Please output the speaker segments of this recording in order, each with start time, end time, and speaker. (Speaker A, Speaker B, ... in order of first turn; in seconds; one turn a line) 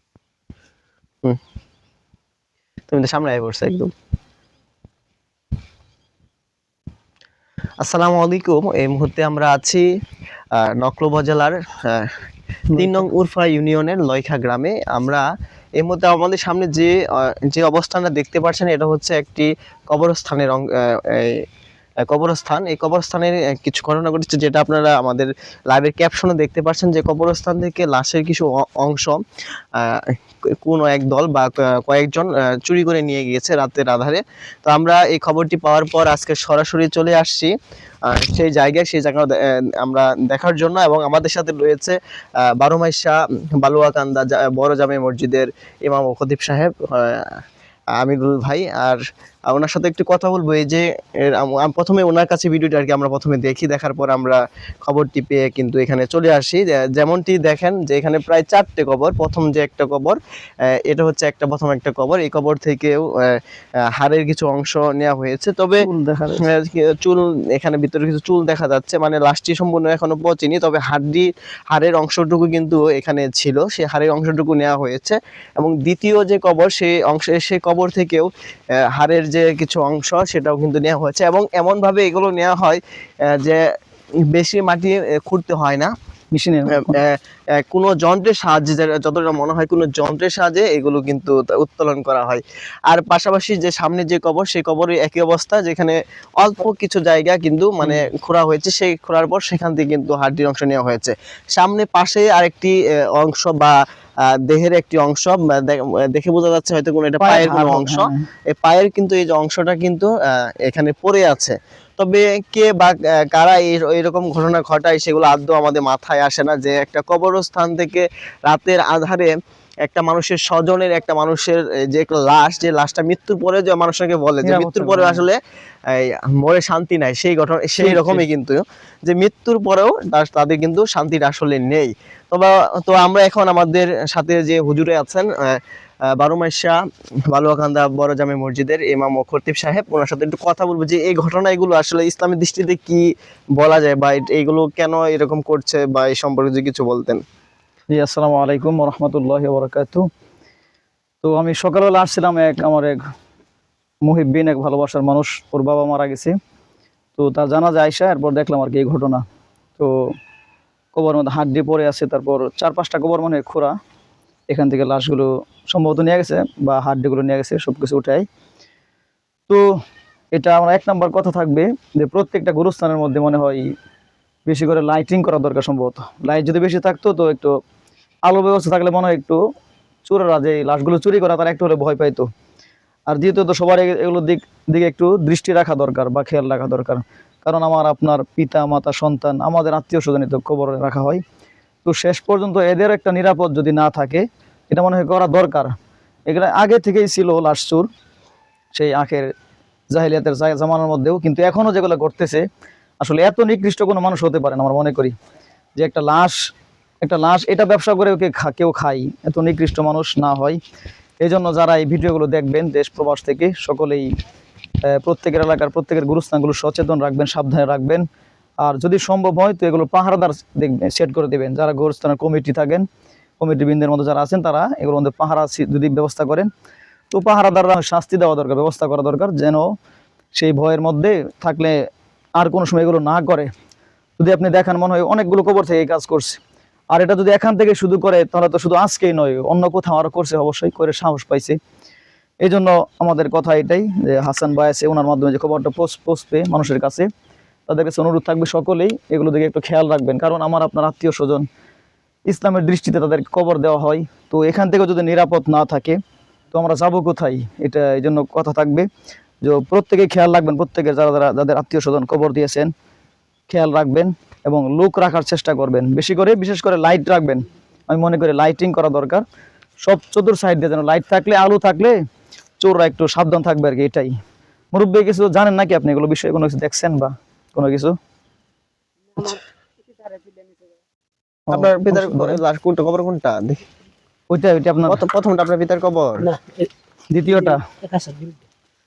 Speaker A: 2.9-3.9
Speaker A: 7.8-9.8
Speaker A: 10.6-12.1
Speaker B: 12.7-13.1
Speaker A: 12.8-15.2
Speaker A: 15.8-21.4
Speaker A: 22.1-29.2
Speaker A: 29.8-37.5
Speaker A: 38.1-42.0
Speaker A: 42.5-47.3
Speaker A: 48.0-60.2
Speaker A: 60.8-63.4
Speaker A: 64.0-65.8
Speaker B: 65.8-66.5
Speaker A: 66.4-78.3
Speaker A: 78.9-83.6
Speaker A: 84.3-85.9
Speaker B: 86.3-87.0
Speaker A: 86.7-103.7
Speaker A: 104.5-110.1
Speaker B: 107.2-108.2
Speaker A: 110.7-119.3
Speaker A: 119.8-125.4
Speaker B: 124.4-125.2
Speaker A: 125.9-135.6
Speaker B: 127.8-128.2
Speaker A: 136.2-136.7
Speaker A: 137.3-143.0
Speaker A: 143.6-147.2
Speaker B: 147.9-150.0
Speaker B: 151.2-153.0
Speaker B: 154.0-156.3
Speaker B: 157.2-159.2
Speaker B: 160.9-163.7
Speaker B: 164.5-168.2
Speaker B: 170.3-173.7
Speaker B: 174.4-177.5
Speaker B: 178.3-179.4
Speaker B: 180.0-182.3
Speaker B: 183.1-191.2
Speaker B: 191.8-195.7
Speaker B: 196.3-197.9
Speaker B: 198.7-199.3
Speaker B: 199.9-202.4
Speaker B: 203.0-205.1
Speaker B: 205.8-206.4
Speaker B: 207.0-210.6
Speaker B: 211.2-214.1
Speaker B: 214.9-218.0
Speaker B: 218.6-222.8
Speaker B: 223.4-226.5
Speaker B: 227.1-229.7
Speaker B: 230.3-231.8
Speaker B: 232.4-233.5
Speaker B: 234.2-236.4
Speaker B: 236.9-241.6
Speaker B: 242.4-247.1
Speaker B: 247.7-251.4
Speaker B: 252.3-256.0
Speaker B: 256.5-258.9
Speaker B: 259.4-262.7
Speaker B: 263.5-269.2
Speaker B: 269.8-271.9
Speaker B: 272.6-274.1
Speaker B: 274.7-277.9
Speaker C: 279.1-280.7
Speaker B: 281.5-282.4
Speaker A: 281.5-283.6
Speaker B: 284.3-285.0
Speaker A: 284.9-286.3
Speaker C: 286.2-286.7
Speaker B: 287.1-287.6
Speaker C: 287.3-288.4